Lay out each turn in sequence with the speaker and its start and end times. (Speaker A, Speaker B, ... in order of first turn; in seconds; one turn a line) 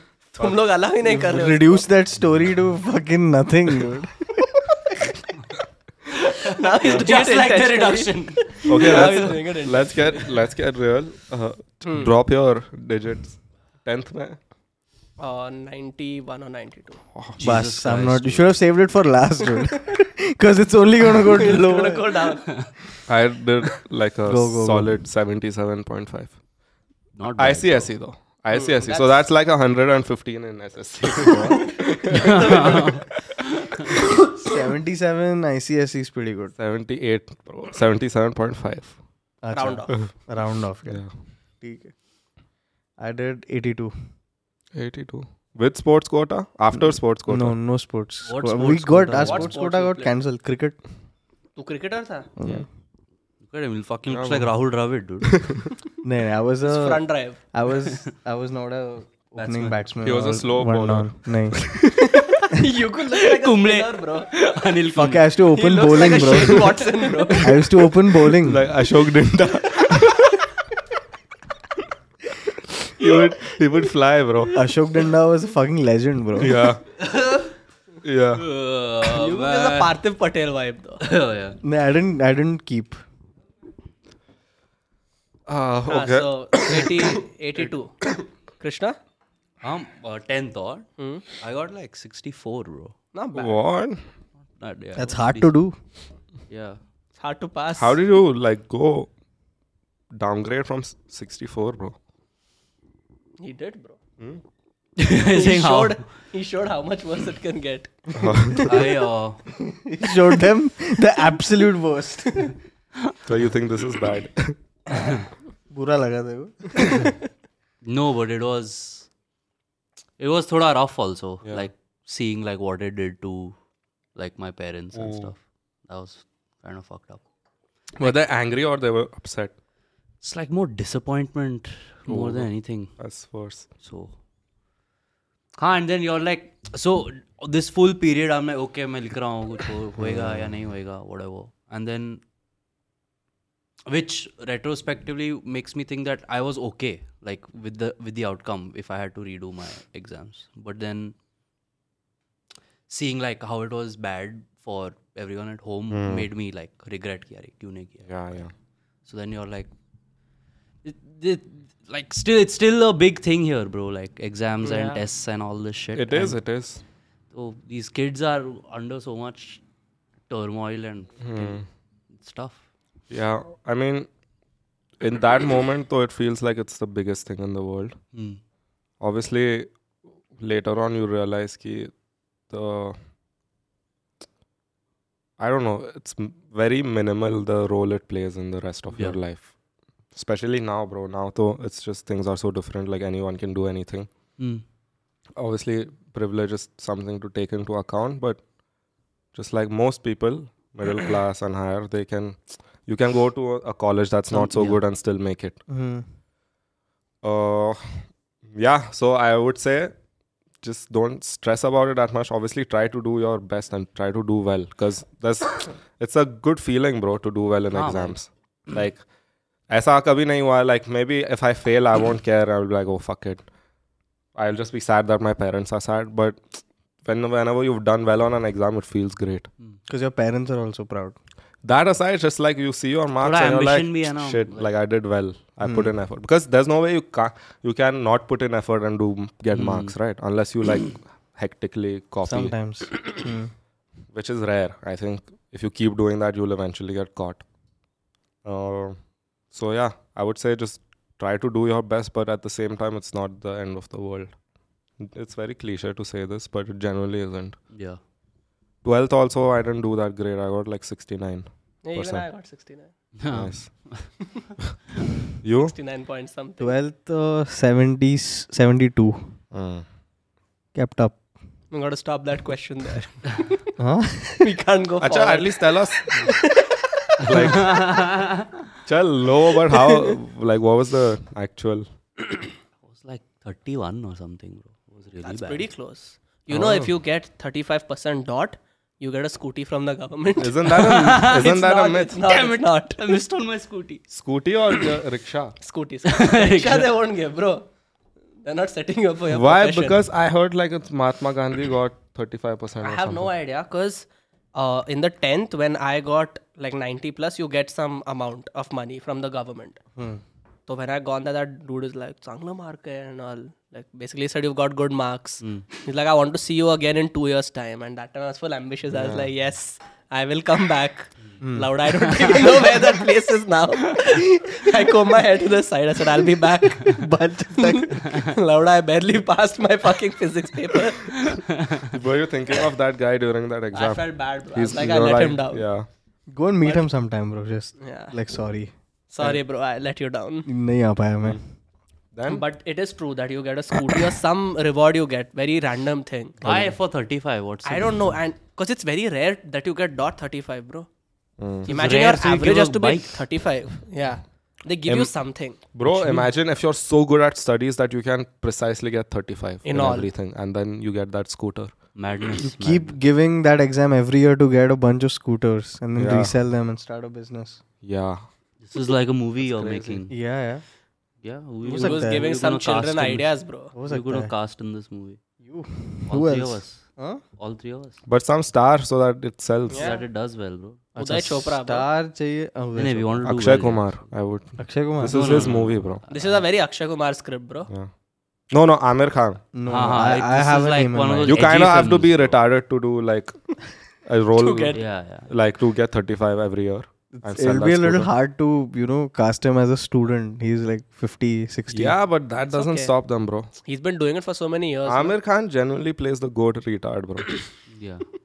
Speaker A: 0.3-1.9
Speaker B: 1.1-5.0
Speaker C: 6.3-9.4
Speaker A: 6.5-10.3
Speaker D: 8.7-14.4
Speaker A: 11.8-12.1
Speaker A: 15.2-17.0
Speaker C: 17.4-18.6
Speaker B: 17.4-22.3
Speaker A: 21.3-22.5
Speaker D: 23.1-26.4
Speaker B: 24.3-25.0
Speaker C: 27.2-27.9
Speaker D: 27.4-33.0
Speaker A: 28.5-29.3
Speaker A: 32.1-32.9
Speaker C: 32.2-33.0
Speaker B: 34.4-36.5
Speaker D: 36.6-39.0
Speaker B: 39.4-41.1
Speaker A: 39.5-40.0
Speaker D: 40.9-41.1
Speaker B: 41.6-42.0
Speaker B: 43.0-43.9
Speaker D: 44.8-47.6
Speaker B: 47.3-50.8
Speaker C: 48.3-49.5
Speaker A: 49.2-50.1
Speaker A: 51.6-52.3
Speaker B: 52.4-52.7
Speaker C: 53.4-55.5
Speaker D: 54.1-54.5
Speaker B: 56.0-61.8
Speaker A: 56.6-57.4
Speaker C: 59.4-59.8
Speaker D: 60.0-62.0
Speaker A: 62.1-64.3
Speaker C: 63.1-65.3
Speaker B: 65.0-68.7
Speaker A: 65.5-67.7
Speaker D: 68.2-70.4
Speaker D: 72.9-74.6
Speaker B: 74.5-76.6
Speaker D: 76.4-76.8
Speaker C: 77.0-77.5
Speaker D: 78.0-78.5
Speaker C: 78.4-80.0
Speaker A: 79.0-81.0
Speaker C: 81.0-81.6
Speaker B: 81.6-83.0
Speaker D: 85.5-87.0
Speaker A: 85.9-89.0
Speaker C: 89.6-93.0
Speaker A: 91.0-91.3
Speaker A: 93.1-93.6
Speaker D: 93.3-94.0
Speaker C: 94.6-95.5
Speaker B: 95.0-95.8
Speaker C: 96.5-96.8
Speaker A: 97.2-98.0
Speaker D: 97.8-99.1
Speaker D: 100.1-102.0
Speaker A: 103.4-104.0
Speaker C: 105.0-106.0
Speaker A: 105.1-108.6
Speaker D: 108.2-108.8
Speaker C: 108.6-109.5
Speaker B: 109.6-112.6
Speaker D: 113.2-114.6
Speaker B: 115.7-117.1
Speaker C: 117.8-119.1
Speaker C: 120.2-123.5
Speaker C: 124.2-127.2
Speaker D: 124.9-125.3
Speaker D: 128.0-129.5
Speaker C: 130.2-133.0
Speaker D: 132.1-133.7
Speaker C: 133.8-134.1
Speaker C: 135.6-142.2
Speaker D: 140.0-140.5
Speaker C: 143.9-151.1
Speaker C: 152.9-158.4
Speaker D: 155.9-156.3
Speaker D: 158.1-158.5
Speaker C: 159.1-159.7
Speaker C: 160.8-166.4
Speaker A: 164.6-165.0
Speaker D: 165.9-166.8
Speaker C: 167.3-169.6
Speaker C: 170.3-171.6
Speaker D: 171.2-171.7
Speaker C: 172.2-172.6
Speaker D: 173.1-174.1
Speaker D: 175.0-178.0
Speaker C: 178.1-178.4
Speaker D: 179.0-179.7
Speaker D: 180.4-181.9
Speaker D: 182.5-183.0
Speaker D: 185.4-189.5
Speaker C: 188.9-189.2
Speaker D: 190.1-194.1
Speaker C: 194.4-194.6
Speaker D: 195.4-198.5
Speaker D: 199.3-205.6
Speaker C: 204.3-204.8
Speaker B: 205.7-206.1
Speaker D: 207.2-210.0
Speaker D: 210.6-219.0
Speaker C: 217.7-218.2
Speaker D: 219.7-223.5
Speaker D: 224.3-229.5
Speaker B: 229.9-231.2
Speaker D: 231.6-242.5
Speaker C: 233.2-234.7
Speaker B: 235.6-235.9
Speaker C: 239.5-239.9
Speaker B: 242.2-243.5
Speaker D: 244.1-247.4
Speaker D: 248.4-249.0
Speaker D: 249.5-254.4
Speaker D: 255.0-257.6
Speaker C: 257.7-258.0
Speaker D: 258.8-262.3
Speaker A: 261.8-262.9
Speaker C: 263.2-264.1
Speaker D: 263.3-264.1
Speaker D: 265.4-265.8
Speaker A: 265.6-266.8
Speaker B: 266.6-269.3
Speaker D: 269.5-269.9
Speaker B: 270.8-271.2
Speaker A: 271.7-273.6
Speaker B: 273.8-274.4
Speaker A: 274.4-277.3
Speaker D: 275.0-276.4
Speaker D: 277.2-278.0
Speaker C: 277.4-278.5
Speaker D: 278.9-281.9
Speaker A: 279.7-280.1
Speaker C: 282.9-285.7
Speaker A: 285.2-293.2
Speaker D: 286.5-286.9
Speaker D: 290.4-292.2
Speaker C: 290.8-291.4
Speaker C: 292.2-294.0
Speaker D: 294.1-295.6
Speaker A: 295.6-297.7
Speaker C: 296.1-296.9
Speaker A: 298.4-300.0
Speaker D: 299.3-303.3
Speaker A: 302.8-309.8
Speaker B: 310.0-310.2
Speaker A: 310.7-331.3
Speaker D: 318.9-319.3
Speaker B: 321.4-321.7
Speaker B: 326.9-328.0
Speaker C: 331.4-331.8
Speaker D: 331.9-335.9
Speaker A: 333.7-335.6
Speaker B: 336.3-338.7
Speaker A: 337.8-338.2
Speaker A: 339.1-340.5
Speaker B: 340.5-341.4
Speaker D: 342.1-342.4
Speaker A: 342.3-346.4
Speaker C: 346.4-348.1
Speaker A: 347.6-350.9
Speaker D: 351.4-351.7
Speaker C: 351.7-353.3
Speaker A: 351.7-355.7
Speaker D: 354.9-355.1
Speaker D: 355.7-361.8
Speaker C: 355.9-356.2
Speaker A: 359.6-360.1
Speaker C: 361.9-363.0
Speaker B: 362.4-367.6
Speaker D: 366.0-366.4
Speaker D: 367.8-368.3
Speaker C: 368.6-370.1
Speaker D: 369.4-370.0
Speaker B: 370.1-370.6
Speaker C: 371.2-375.2
Speaker A: 371.6-373.7
Speaker B: 371.7-372.3
Speaker B: 373.7-374.3
Speaker B: 375.4-377.2
Speaker C: 376.1-378.0
Speaker D: 378.1-380.0
Speaker A: 379.7-380.0
Speaker C: 379.8-380.8
Speaker B: 380.9-383.3
Speaker A: 381.0-381.9
Speaker C: 382.8-384.0
Speaker D: 383.2-386.0
Speaker B: 384.6-385.4
Speaker C: 385.1-386.4
Speaker A: 386.1-387.7
Speaker D: 388.5-389.4
Speaker B: 389.5-391.4
Speaker C: 389.7-392.4
Speaker D: 391.2-398.1
Speaker A: 394.4-394.9
Speaker C: 394.7-395.3
Speaker B: 397.1-402.0
Speaker D: 401.7-403.5
Speaker A: 402.4-402.9
Speaker A: 403.6-405.1
Speaker D: 404.9-407.4
Speaker C: 407.7-408.1